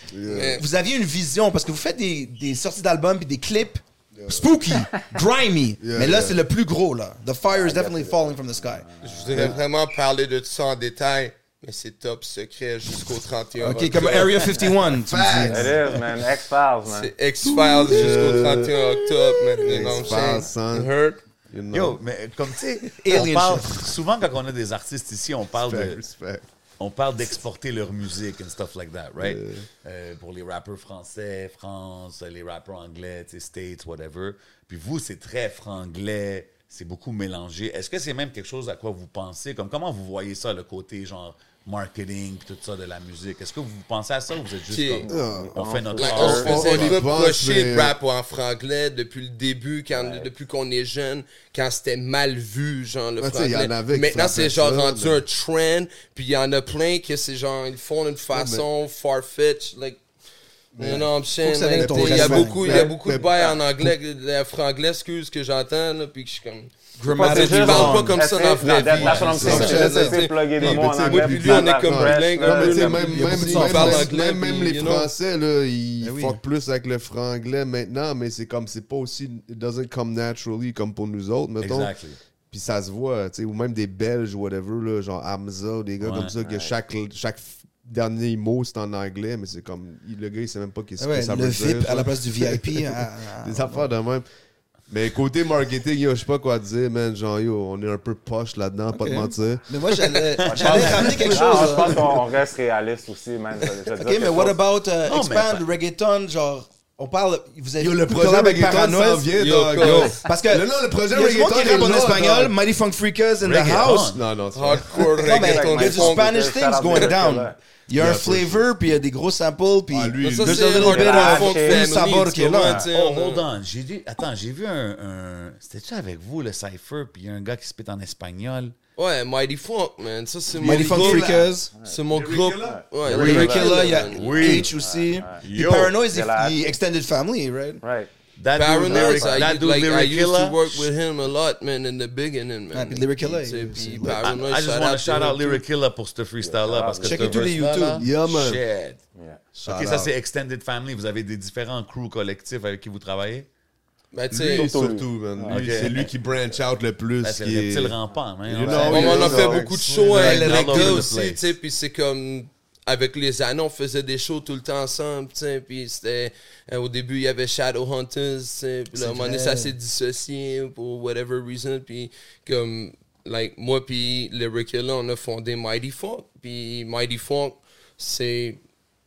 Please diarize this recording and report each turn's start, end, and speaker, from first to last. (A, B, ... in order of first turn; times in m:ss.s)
0:00.1-0:00.6 A
0:00.3-0:00.6 B
0:00.4-0:08.9 C
0:04.1-0:04.5 A
0:05.8-0:06.4 A
0:07.5-0:09.5 D
0:09.0-0:14.8 B
0:13.6-0:15.8 C
0:15.0-0:15.8 A
0:15.4-0:17.1 D
0:16.9-0:21.2 B
0:17.4-0:18.4 C
0:17.5-0:18.8 A
0:19.6-0:20.9 A
0:21.5-0:22.0 A
0:21.7-0:26.0 E
0:22.9-0:23.9 C
0:25.5-0:26.5 A
0:26.8-0:47.0 E
0:29.2-0:29.6 A
0:44.7-0:45.1 B
0:45.0-0:46.6 D
0:45.1-0:45.6 A
0:46.0-1:00.0 B
0:46.3-0:48.0 A
0:49.9-0:50.3 D
0:53.2-0:55.2 A
0:58.3-0:58.7 A
1:00.8-1:01.1 A
1:00.8-1:15.1 B
1:01.4-1:02.9 C
1:01.8-1:03.9 A
1:07.0-1:08.2 C
1:07.1-1:13.4 D
1:09.0-1:09.4 E
1:09.1-1:21.9 A
1:09.3-1:10.2 C
1:13.1-1:14.1 C
1:16.0-1:16.4 C
1:21.6-1:22.2 E
1:22.5-1:34.2 A
1:26.0-1:26.4 E
1:26.4-1:26.7 D
1:31.0-1:33.9 C
1:34.9-1:39.8 A
1:38.9-1:42.1 C
1:40.1-1:42.2 E
1:40.4-1:44.6 D
1:44.0-1:54.1 C
1:45.0-1:45.7 E
1:47.8-1:52.6 A
1:49.4-1:50.2 B
1:53.4-1:54.2 E
1:53.8-1:55.3 A
1:54.5-1:57.1 B
1:55.0-1:57.6 D
1:55.2-2:02.9 C
1:58.0-1:58.7 A
1:59.9-2:00.9 A
2:00.2-2:03.4 B
2:00.7-2:01.9 D
2:02.6-2:02.9 D
2:02.9-2:08.7 E
2:09.0-2:14.6 B
2:10.6-2:11.8 C
2:10.7-2:11.1 A
2:11.7-2:12.0 D
2:12.1-2:13.0 A
2:12.6-2:15.4 D
2:13.0-2:17.8 C
2:13.1-2:14.7 E
2:15.4-2:16.0 E
2:16.1-2:16.8 D
2:17.8-2:18.1 D
2:18.4-2:20.9 E
2:18.5-2:25.6 B
2:18.9-2:19.2 C
2:19.0-2:19.5 D
2:22.7-2:24.2 C
2:24.2-2:29.0 E
2:26.4-2:27.5 D
2:27.0-2:28.1 C
2:28.0-2:28.6 A
2:29.2-2:29.4 D
2:29.6-2:30.1 A
2:29.7-2:33.5 E
2:34.1-2:34.7 B
2:34.3-2:40.1 A
2:34.5-2:36.0 D
2:35.5-2:36.1 E
2:37.2-2:41.5 E
2:38.7-2:41.1 C
2:38.7-2:39.3 D
2:38.9-2:58.6 B
2:48.9-2:49.7 C